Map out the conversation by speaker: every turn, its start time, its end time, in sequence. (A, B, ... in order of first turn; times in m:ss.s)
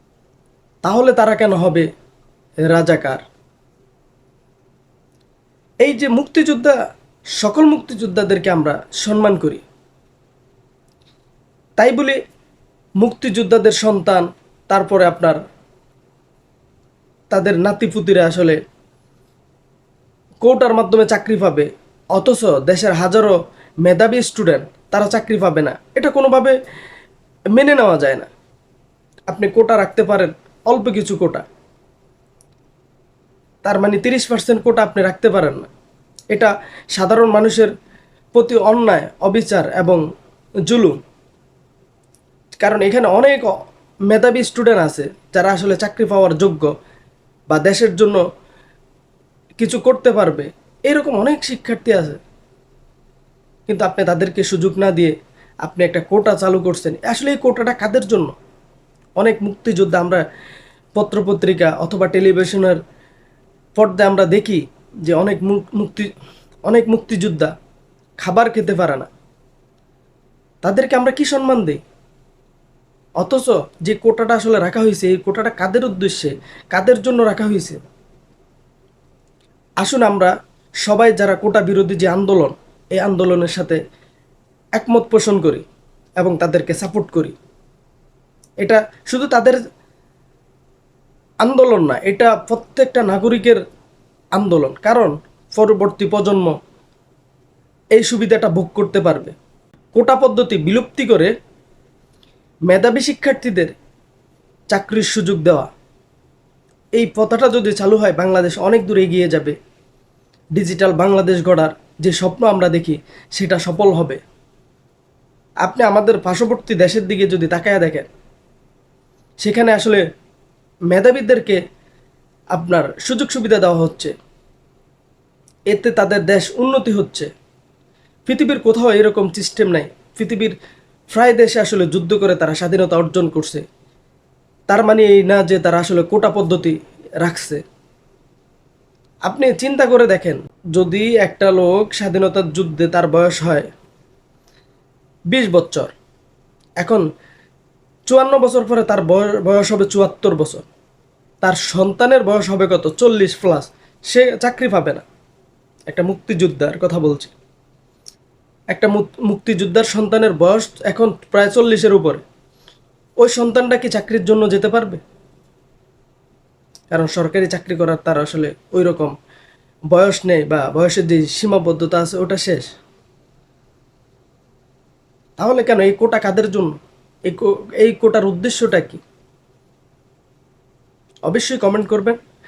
0:00.8-0:01.8 A
0:02.7-0:03.2 A
0:05.8-0:06.7 A
0:07.4-0:09.6 A
0:11.8-0:12.2 A
0:13.0-0:15.4 A
0:17.3-0:18.6 A
0:20.4-0:26.6 A
0:27.5-0:28.3 A
0:29.3-0:31.4 A
0:33.6-0:35.7 A
0:36.3-0:37.7 A
0:38.3-0:40.0 A
0:40.6-0:41.0 A
0:42.6-0:43.5 A
0:44.1-0:46.7 A
0:47.5-0:48.2 A
0:49.6-0:52.2 A
0:53.7-0:58.3 A
0:59.2-1:00.2 A
1:01.0-1:02.8 A
1:03.8-1:06.1 A
1:06.6-1:07.5 A
1:08.2-1:09.1 A
1:10.6-1:11.8 A
1:13.2-1:17.9 A
1:19.8-1:20.3 A
1:20.8-1:23.8 A
1:24.8-1:25.6 A
1:26.2-1:27.3 A
1:28.6-1:29.6 A
1:31.4-1:33.6 A
1:34.3-1:36.6 A
1:37.9-1:39.3 A
1:39.9-1:41.3 A
1:42.7-1:43.7 A
1:44.7-1:45.7 A
1:46.9-1:49.6 A
1:50.6-1:54.2 A
1:55.6-1:58.1 A
1:59.4-2:00.0 A
2:00.9-2:01.6 A
2:02.5-2:04.1 A
2:05.7-2:07.3 A
2:08.2-2:10.5 A
2:11.1-2:13.6 A
2:14.7-2:17.6 A
2:19.2-2:23.7 A
2:25.3-2:25.9 A
2:26.8-2:27.0 A
2:28.1-2:30.6 A
2:31.4-2:35.0 A
2:35.9-2:37.3 A
2:38.7-2:42.2 A
2:43.2-2:45.0 A
2:46.9-2:49.1 A
2:49.9-2:52.7 A
2:55.4-2:56.7 A
2:57.3-2:59.0 A
3:01.3-3:02.2 A